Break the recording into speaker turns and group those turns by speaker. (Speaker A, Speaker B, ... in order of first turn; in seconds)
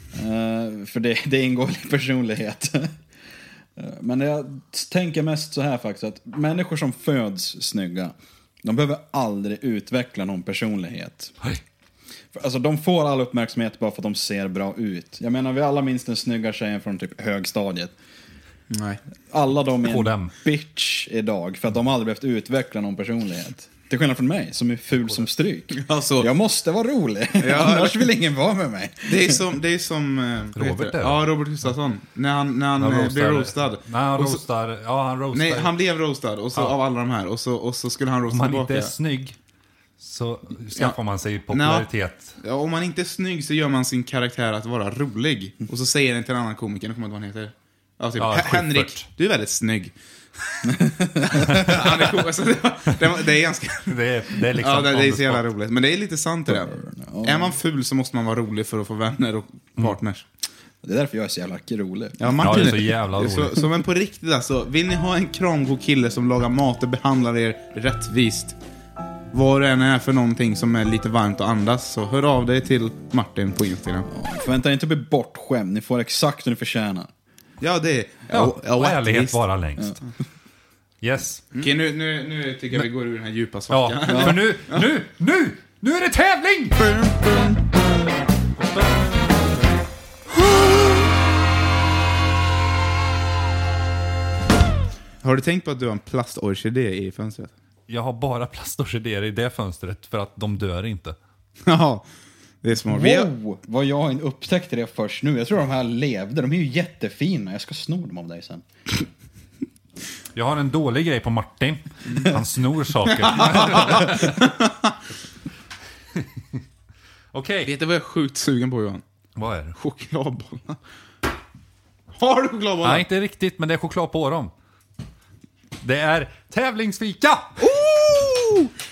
Speaker A: 0.1-3.0, 3.8-11.4, 12.3-17.9, 19.3-29.4, 50.6-51.9, 56.5-57.6, 60.8-62.7, 74.1-77.1, 84.1-84.4, 102.9-108.7
Speaker B: 18.7-19.0, 25.7-26.3, 27.4-28.1, 29.1-34.4, 35.3-38.9, 41.5-49.9, 51.4-54.0, 54.6-60.2, 62.2-68.6, 69.3-74.1, 77.6-79.4, 81.5-84.9, 86.8-87.7, 90.4-91.0, 95.2-97.5, 101.7-102.0, 102.6-103.3, 113.2-114.9, 117.7-119.0, 119.8-120.8, 122.2-123.1, 127.6-128.7
Speaker C: 19.8-20.3, 30.6-31.3, 32.8-35.7, 38.3-39.4, 40.0-42.4, 48.2-49.1, 51.4-51.9, 53.9-55.4, 62.4-63.6, 78.3-80.0, 81.0-81.5, 83.7-86.8, 88.6-88.9, 97.9-101.2, 110.3-114.4, 117.3-117.7, 119.4-119.8, 122.8-124.5, 125.8-127.6